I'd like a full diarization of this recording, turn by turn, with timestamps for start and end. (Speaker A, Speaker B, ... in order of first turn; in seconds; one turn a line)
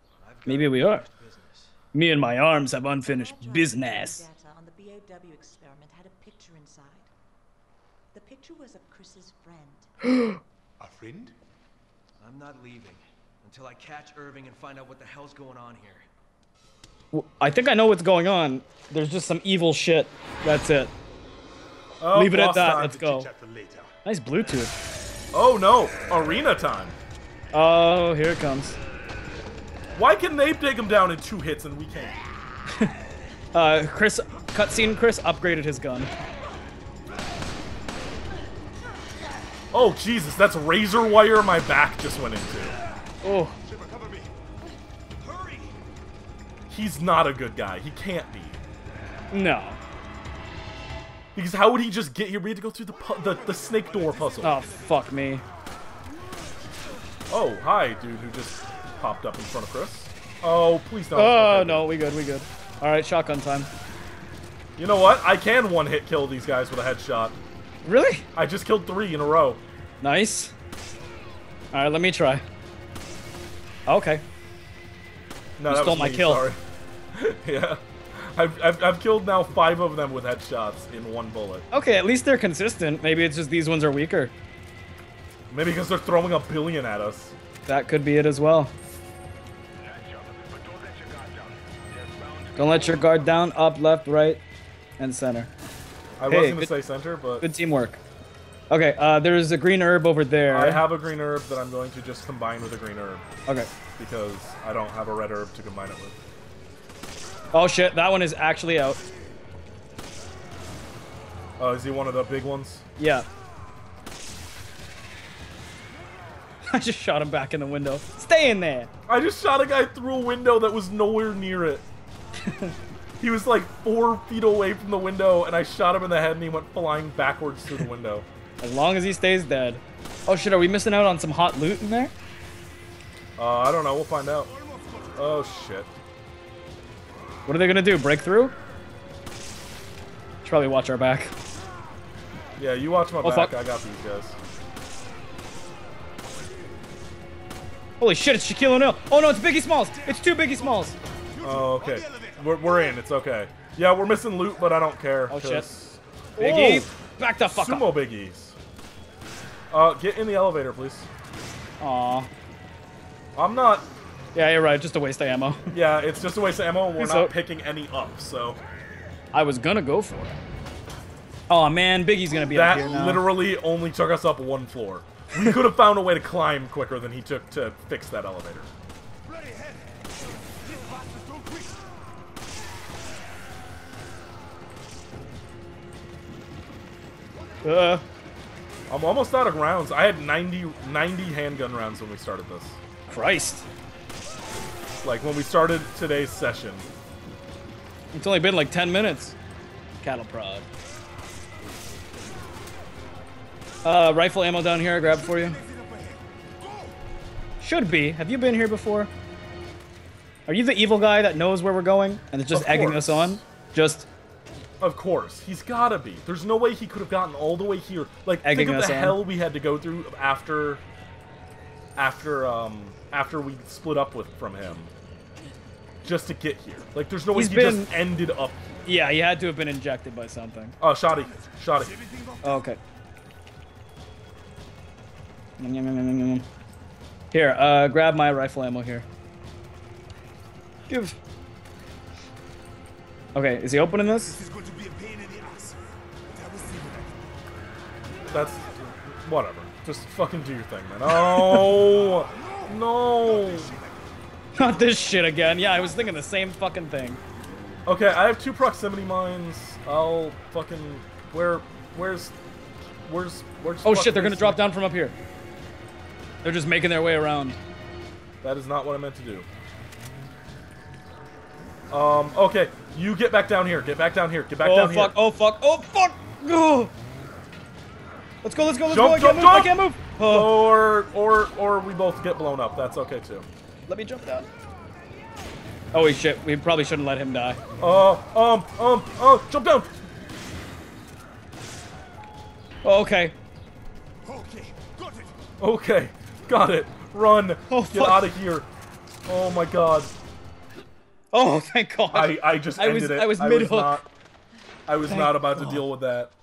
Speaker A: 0.2-1.7
Speaker B: 0.5-1.1
Speaker B: 1.9-4.2
Speaker C: 3.0-7.1
Speaker C: 8.1-9.9
Speaker B: 10.1-10.4
Speaker D: 10.8-11.3
Speaker A: 12.2-16.1
Speaker B: 17.1-20.9
Speaker E: 22.0-23.1
Speaker B: 22.1-23.3
Speaker D: 23.0-23.9
Speaker B: 24.1-24.7
Speaker E: 25.3-27.0
Speaker B: 27.5-28.8
Speaker E: 29.9-32.2
Speaker B: 33.5-36.1
Speaker E: 39.7-42.8
Speaker B: 43.2-43.5
Speaker D: 43.6-44.4
Speaker D: 45.2-45.7
Speaker E: 46.7-48.6
Speaker B: 49.3-49.8
Speaker E: 51.4-54.6
Speaker D: 53.0-55.1
Speaker B: 54.4-55.4
Speaker E: 57.3-61.9
Speaker B: 61.1-63.7
Speaker E: 64.8-67.4
Speaker B: 67.8-68.3
Speaker E: 68.3-69.6
Speaker B: 70.0-70.5
Speaker B: 71.7-72.4
Speaker B: 73.9-74.2
Speaker E: 75.6-76.6
Speaker B: 75.7-76.5
Speaker E: 77.1-81.6
Speaker B: 81.7-84.3
Speaker E: 85.5-87.3
Speaker B: 87.7-88.7
Speaker A: 89.8-93.4
Speaker B: 92.6-94.4
Speaker B: 95.0-95.5
Speaker E: 96.2-97.5
Speaker B: 96.3-96.7
Speaker B: 97.4-98.0
Speaker B: 98.7-100.8
Speaker E: 100.5-103.2
Speaker E: 104.0-106.2
Speaker B: 107.5-109.0
Speaker E: 111.6-112.8
Speaker B: 113.0-113.3
Speaker B: 116.7-118.9
Speaker E: 119.1-121.9
Speaker B: 122.4-122.7
Speaker E: 123.2-128.3
Speaker B: 128.6-132.1
Speaker E: 133.4-134.5
Speaker D: 134.6-135.2
Speaker E: 135.2-136.0
Speaker B: 137.4-138.6
Speaker B: 140.4-141.3
Speaker E: 142.6-144.4
Speaker B: 143.2-143.5
Speaker B: 148.0-150.9
Speaker D: 149.9-153.0
Speaker E: 151.4-158.6
Speaker B: 155.3-155.7
Speaker B: 156.4-157.9
Speaker E: 159.7-161.1
Speaker B: 161.8-162.3
Speaker E: 163.3-163.9
Speaker B: 164.3-165.7
Speaker E: 165.7-168.6
Speaker B: 167.0-167.3
Speaker B: 169.3-170.4
Speaker B: 171.5-173.2
Speaker E: 172.5-178.7
Speaker D: 179.2-181.8
Speaker B: 187.6-188.0
Speaker E: 188.9-192.8
Speaker B: 193.1-193.7
Speaker E: 195.0-196.9
Speaker B: 198.1-199.4
Speaker B: 200.0-200.7
Speaker B: 203.8-205.6
Speaker D: 205.0-207.0
Speaker B: 207.6-209.1
Speaker B: 210.5-214.1
Speaker E: 212.5-213.4
Speaker E: 214.8-220.8
Speaker B: 218.4-219.2
Speaker E: 221.9-224.9
Speaker E: 226.0-228.6
Speaker B: 227.3-227.9
Speaker B: 228.9-230.8
Speaker E: 230.8-231.9
Speaker D: 231.1-232.7
Speaker B: 232.4-232.8
Speaker B: 235.6-236.5
Speaker B: 237.3-239.1
Speaker B: 240.9-241.2
Speaker B: 243.3-244.4
Speaker D: 244.2-247.5
Speaker D: 248.2-248.8
Speaker E: 248.3-253.7
Speaker B: 251.3-251.6
Speaker D: 251.7-254.1
Speaker B: 254.6-257.2
Speaker D: 255.6-256.2
Speaker E: 257.9-262.4
Speaker E: 263.1-264.6
Speaker B: 263.9-265.1
Speaker B: 266.4-267.6
Speaker E: 268.4-269.5
Speaker E: 271.9-275.1
Speaker B: 274.6-276.9
Speaker B: 278.4-280.6
Speaker E: 278.9-283.5
Speaker B: 283.9-284.5
Speaker B: 285.9-287.6
Speaker E: 287.8-289.9
Speaker B: 292.8-293.4
Speaker D: 294.2-295.4
Speaker E: 295.6-298.7
Speaker B: 297.7-298.2
Speaker E: 299.3-300.1
Speaker B: 301.3-304.0
Speaker E: 302.1-304.1
Speaker E: 304.9-306.3
Speaker B: 305.1-305.9